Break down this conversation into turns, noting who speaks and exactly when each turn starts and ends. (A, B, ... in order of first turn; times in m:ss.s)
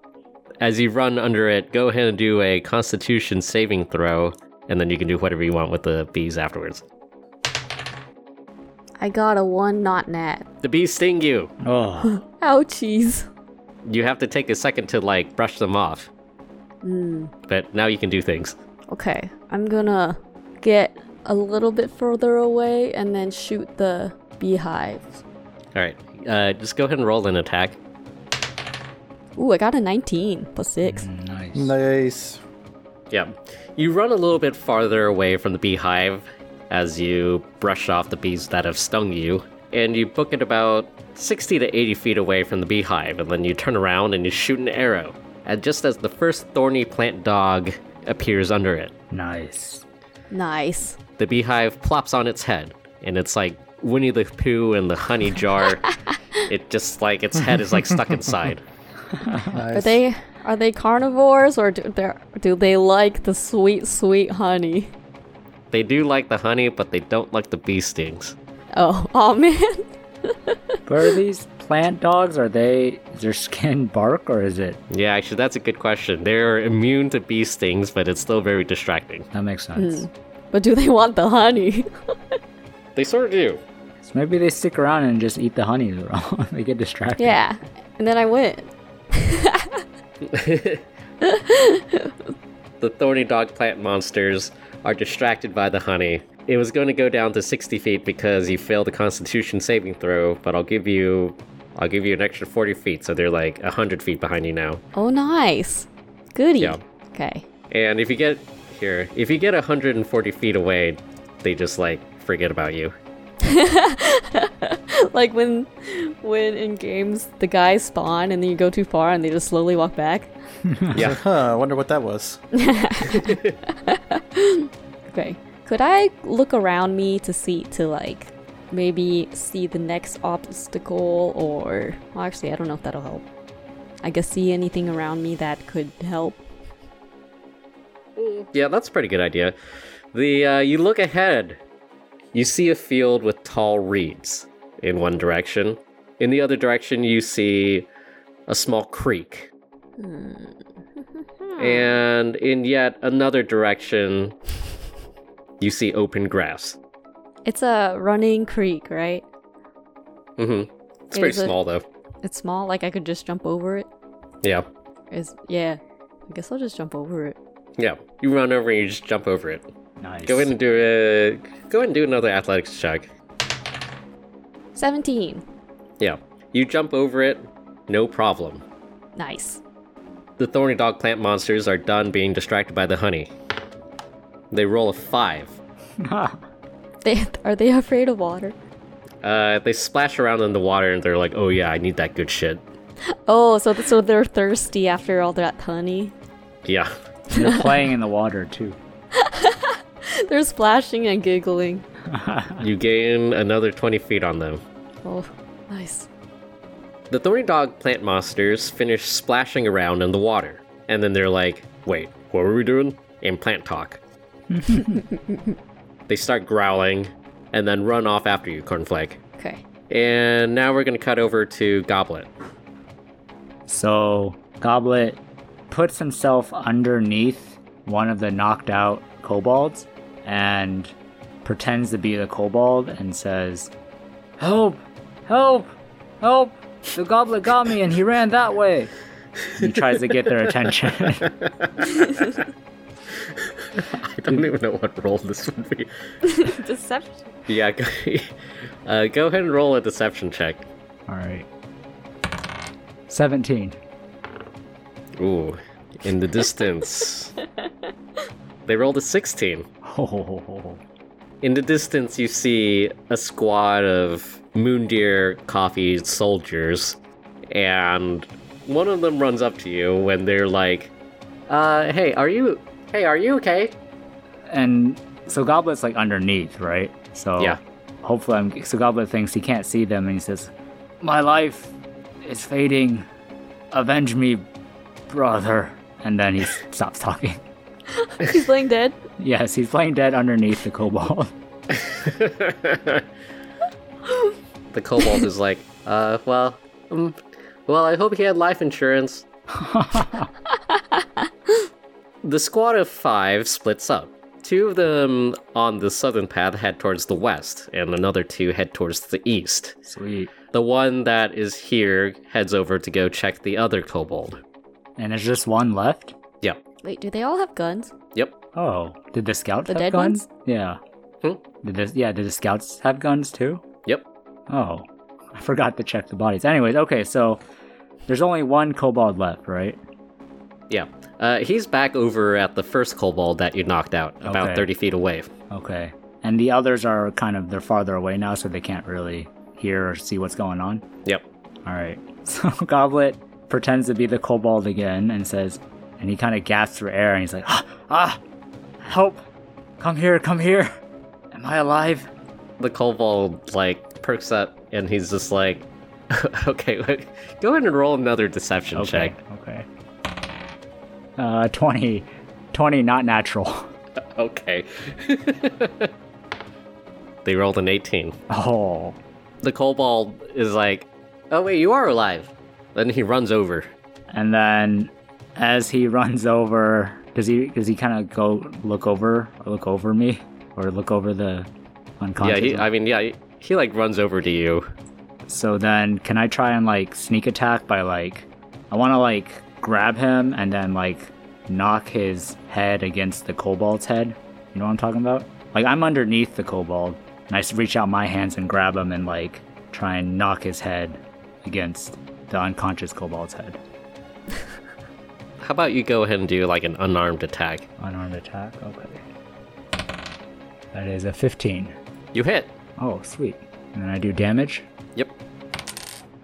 0:00.6-0:06.8 A
0:09.0-0:10.4 B
0:10.6-0:11.5 A
0:11.6-0:12.2 C
0:12.0-0:13.3 B
0:13.8-0:16.1 A
0:16.8-0:17.3 B
0:17.5-0:18.5 A
0:18.9-0:25.2 B
0:25.7-0:27.8 A
0:29.4-0:31.1 B
0:30.8-0:31.7 C
0:31.5-0:32.4 D
0:33.1-0:48.9 A
0:49.1-0:49.8 C
0:50.3-0:51.0 B
0:51.2-0:55.8 A
0:55.9-0:56.1 B
0:56.5-0:58.6 A
0:59.1-0:59.5 C
0:59.5-1:00.0 D
0:59.7-1:04.9 B
1:05.7-1:08.4 A
1:08.7-1:10.8 B
1:10.8-1:14.8 C
1:14.9-1:19.3 A
1:19.3-1:20.0 C
1:19.8-1:22.4 B
1:23.0-1:23.6 A
1:24.0-1:27.4 C
1:27.2-1:29.8 B
1:30.2-1:30.8 A
1:31.2-1:32.2 B
1:32.8-1:44.8 A
1:44.9-1:47.4 B
1:47.7-1:52.9 A
1:53.4-2:00.3 B
2:00.6-2:01.0 C
2:00.9-2:01.2 A
2:00.9-2:02.4 D
2:02.5-2:13.2 B
2:03.0-2:03.6 A
2:14.0-2:16.4 B
2:18.2-2:19.5 A
2:20.1-2:21.6 A
2:22.3-2:27.9 A
2:28.5-2:29.5 A
2:30.0-2:30.6 B
2:31.4-2:32.0 B
2:31.6-2:34.3 A
2:35.6-2:36.8 A
2:37.4-2:39.2 B
2:40.4-2:41.8 A
2:41.1-2:41.5 B
2:42.2-2:43.9 B
2:45.1-2:47.4 B
2:47.8-2:49.7 A
2:50.0-2:50.5 C
2:50.2-2:53.0 A
2:54.8-2:55.4 B
2:56.0-2:58.6 A
2:59.2-2:59.6 B
3:00.4-3:03.3 A
3:04.5-3:05.6 A
3:06.0-3:06.4 C
3:07.0-3:08.5 B
3:09.2-3:12.6 A
3:13.2-3:16.1 B
3:16.6-3:16.9 A
3:17.3-3:17.8 B
3:17.3-3:18.8 C
3:19.1-3:21.8 B
3:22.1-3:22.6 C
3:22.6-3:24.6 A
3:25.0-3:26.1 B
3:27.1-3:34.0 A
3:34.5-3:35.0 C
3:36.1-3:39.2 A
3:39.9-3:42.3 A
3:43.7-3:50.9 C
3:51.4-3:53.7 C
3:54.4-3:58.9 C
3:59.5-4:01.3 C
4:01.2-4:02.2 A
4:03.2-4:05.9 A
4:06.2-4:07.3 B
4:07.5-4:08.3 A
4:08.8-4:10.6 A
4:11.1-4:11.5 C
4:13.1-4:13.8 C
4:15.2-4:17.3 A
4:18.6-4:19.7 A
4:19.8-4:20.8 C
4:21.4-4:27.0 A
4:27.5-4:30.9 A
4:31.5-4:33.7 A
4:34.5-4:43.0 C
4:43.7-4:44.4 C
4:45.1-4:47.4 C
4:47.9-4:49.0 B
4:49.2-4:51.3 C
4:51.7-4:53.0 A
4:54.7-4:59.2 A
4:59.5-5:00.3 C
5:00.5-5:01.5 B
5:02.2-5:09.8 A
5:09.9-5:10.3 C
5:10.5-5:14.4 A
5:15.0-5:16.1 C
5:16.8-5:17.9 B
5:18.5-5:20.8 C
5:19.7-5:20.3 B
5:21.6-5:23.6 C
5:24.5-5:27.4 C
5:28.1-5:29.8 C
5:30.7-5:35.3 A
5:34.2-5:34.7 C
5:35.5-5:40.8 C
5:41.6-5:48.2 C
5:48.8-5:49.2 C
5:49.8-5:50.7 C
5:51.3-5:52.1 C
5:52.6-5:59.1 A
5:58.7-5:59.7 C
6:01.2-6:03.7 C
6:04.1-6:05.9 A
6:07.2-6:08.1 A
6:08.3-6:09.0 C
6:09.4-6:13.7 A
6:14.1-6:21.5 C
6:22.0-6:22.7 C
6:22.2-6:24.6 A
6:25.2-6:43.6 C
6:45.4-6:47.6 A
6:47.8-6:49.0 C
6:50.7-6:51.8 C
6:52.1-6:52.5 A
6:52.8-6:54.6 C